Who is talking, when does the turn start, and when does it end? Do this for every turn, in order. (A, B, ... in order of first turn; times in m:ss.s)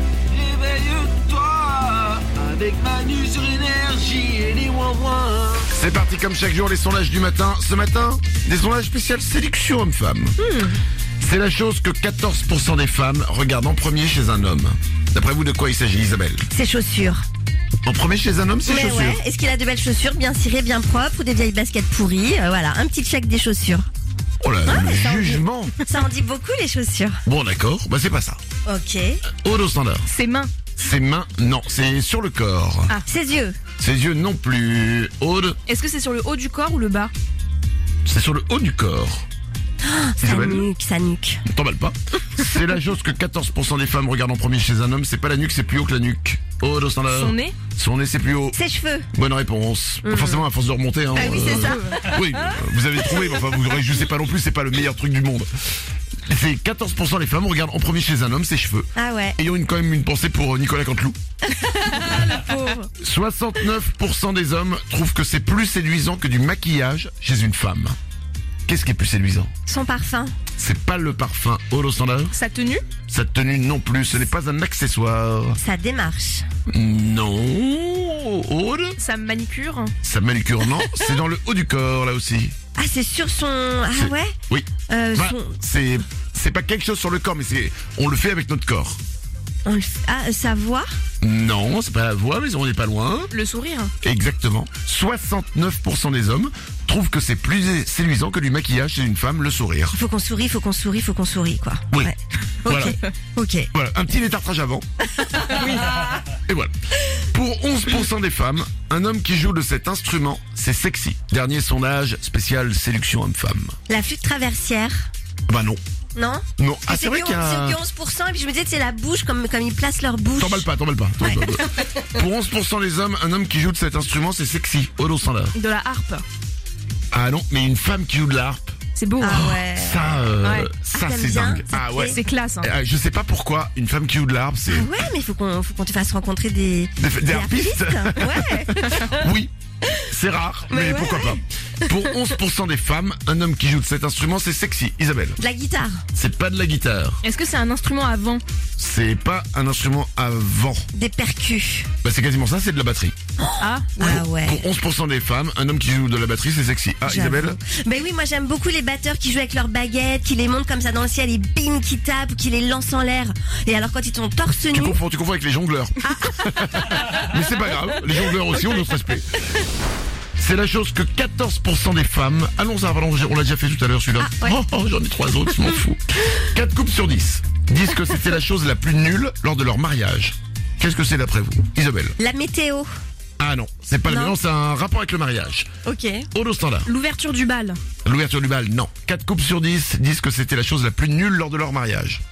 0:00.3-0:05.7 A
0:05.7-0:10.4 B
0:11.2-0:16.5 B
0:16.5-0:17.2 C
0:17.8-0:19.2 B
0:18.6-0:23.9 C
0:24.4-0:25.7 B
0:24.6-0:27.2 C
0:27.3-0:28.4 B
0:28.6-0:29.2 C
0:29.3-0:30.1 B
0:30.1-0:30.5 D
0:30.8-0:33.0 B
0:33.1-0:33.6 C
0:33.8-0:35.6 B
0:35.7-0:37.1 D
0:38.0-0:39.2 B
0:39.8-0:41.4 C
0:40.2-0:40.7 B
0:41.5-0:48.6 B
0:47.1-0:47.6 D
0:48.5-0:49.1 C
0:49.1-0:55.5 B
0:50.0-0:50.4 C
0:51.1-0:52.2 C
0:51.2-0:52.0 D
0:56.2-1:01.2 B
0:59.0-0:59.4 C
1:01.5-1:02.8 C
1:01.8-1:02.8 D
1:03.0-1:08.0 B
1:08.7-1:09.5 B
1:09.7-1:10.4 C
1:10.6-1:12.4 B
1:12.3-1:12.8 D
1:13.1-1:15.6 B
1:15.6-1:16.5 C
1:16.7-1:19.0 B
1:19.0-1:19.9 D
1:20.0-1:22.6 B
1:22.8-1:24.4 C
1:23.9-1:29.0 B
1:24.9-1:25.5 C
1:29.6-1:30.9 C
1:31.2-1:33.3 B
1:33.3-1:33.9 D
1:34.0-1:40.0 B
1:39.9-1:43.7 C
1:42.6-1:43.0 B
1:43.7-1:44.9 B
1:45.2-1:46.2 C
1:46.5-1:53.8 B
1:53.9-1:55.1 C
1:55.5-1:55.8 B
1:56.2-2:00.7 C
1:56.6-1:57.8 B
2:00.4-2:05.6 B
2:01.2-2:01.8 C
2:05.5-2:06.2 D
2:07.1-2:08.8 B
2:09.0-2:09.4 D
2:09.2-2:10.2 C
2:09.3-2:14.9 B
2:10.4-2:10.7 D
2:10.9-2:12.2 C
2:12.0-2:12.7 D
2:14.7-2:19.2 C
2:17.0-2:25.4 B
2:20.7-2:22.2 C
2:25.4-2:26.0 C
2:26.1-2:27.2 B
2:27.2-2:28.4 D
2:28.8-2:30.9 B
2:30.9-2:31.9 C
2:32.0-2:33.2 B
2:33.4-2:34.6 C
2:33.6-2:34.0 D
2:34.0-2:37.6 B
2:37.1-2:45.0 C
2:44.7-2:49.4 B
2:46.0-2:46.9 C
2:50.4-3:02.2 B
2:54.2-2:54.6 C
3:02.2-3:02.9 C
3:03.4-3:05.7 B
3:04.1-3:04.4 C
3:05.8-3:06.3 C
3:06.3-3:06.9 B
3:06.9-3:07.8 D
3:08.0-3:12.2 B